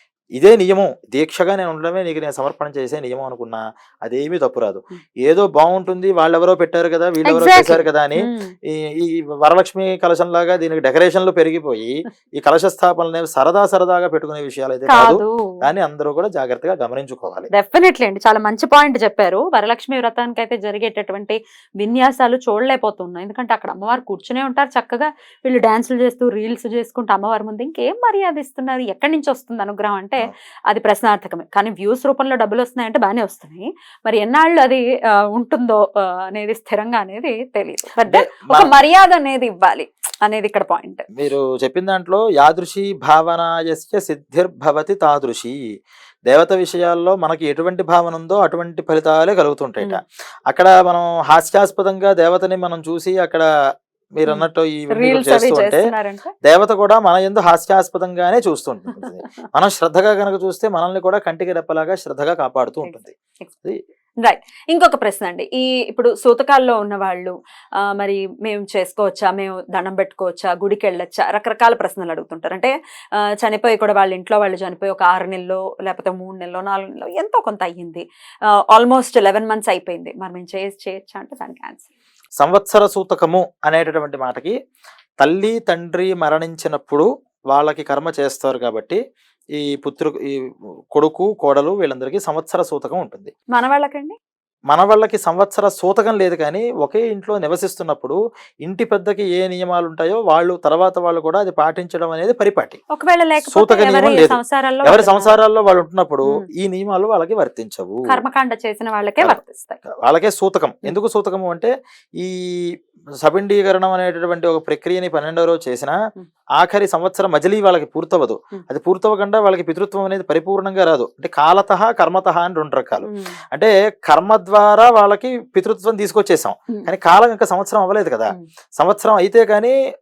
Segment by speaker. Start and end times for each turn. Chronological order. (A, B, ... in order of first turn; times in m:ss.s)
0:00.4-0:17.5 A
0:07.2-0:08.5 B
0:14.9-0:15.6 B
0:17.5-0:41.0 B
0:38.0-0:38.7 A
0:41.2-0:45.6 A
0:46.3-0:53.5 A
0:54.2-0:55.9 A
0:54.3-0:56.3 B
0:56.4-1:03.8 A
0:58.9-0:59.2 B
1:02.8-1:03.5 B
1:04.2-1:12.7 B
1:13.4-1:18.0 B
1:18.7-1:21.8 B
1:22.4-1:24.6 A
1:25.2-1:29.0 A
1:29.6-1:30.4 A
1:30.9-1:33.3 A
1:33.5-1:34.2 B
1:34.7-1:42.8 A
1:42.9-1:45.4 B
1:43.4-1:48.2 A
1:48.1-1:49.8 B
1:50.0-1:52.6 A
1:53.2-1:56.0 A
1:56.6-2:09.8 A
2:03.0-2:03.4 B